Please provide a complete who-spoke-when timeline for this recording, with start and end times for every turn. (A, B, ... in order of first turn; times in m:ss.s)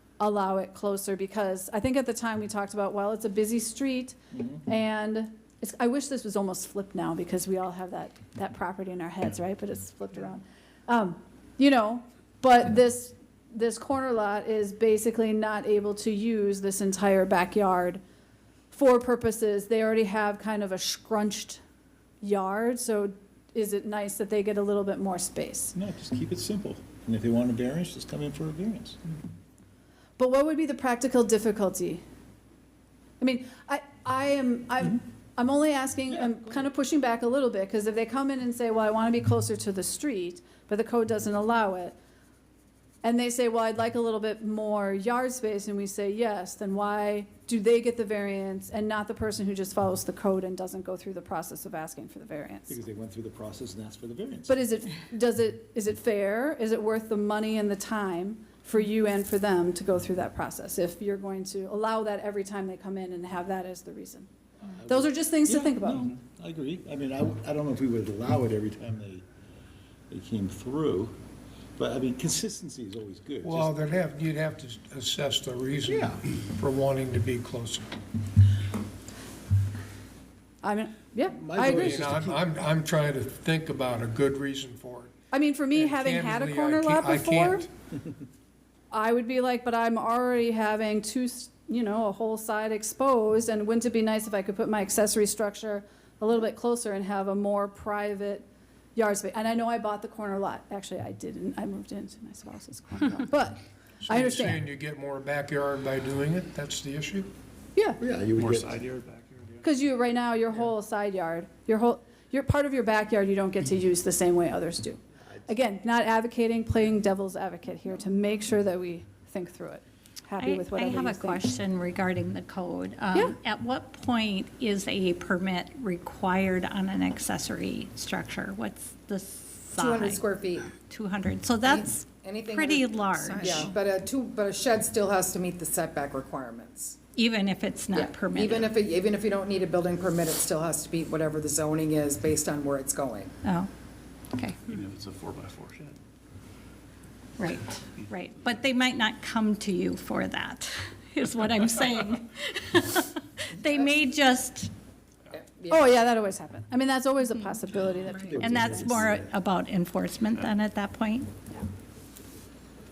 0:00.2-0:18.0 A
0:04.3-0:04.6 B
0:18.7-0:21.6 A
0:22.2-0:25.7 A
0:25.7-0:29.0 B
0:30.2-0:32.0 A
0:33.2-0:42.0 A
0:43.0-0:52.8 A
0:52.7-0:54.6 B
0:54.5-1:04.3 A
1:04.7-1:09.2 B
1:04.8-1:06.1 A
1:10.1-1:11.2 B
1:11.8-1:13.7 B
1:13.4-1:17.9 C
1:15.8-1:16.2 B
1:20.6-1:21.9 A
1:21.3-1:22.4 B
1:21.6-1:25.1 C
1:25.3-1:27.6 A
1:25.7-1:27.7 C
1:28.9-1:44.6 A
1:44.0-1:47.3 C
1:48.0-1:48.8 B
1:48.3-1:49.7 D
1:49.6-2:01.4 A
2:00.4-2:10.3 E
2:09.7-2:10.7 F
2:10.8-2:13.7 E
2:11.6-2:17.0 F
2:13.2-2:13.7 A
2:17.1-2:18.8 E
2:17.9-2:23.3 F
2:23.4-2:23.7 E
2:24.3-2:24.8 E
2:24.7-2:26.0 D
2:27.4-2:34.7 E
2:35.3-2:35.9 F
2:35.7-2:39.0 A
2:38.1-2:39.3 B
2:38.3-2:41.3 E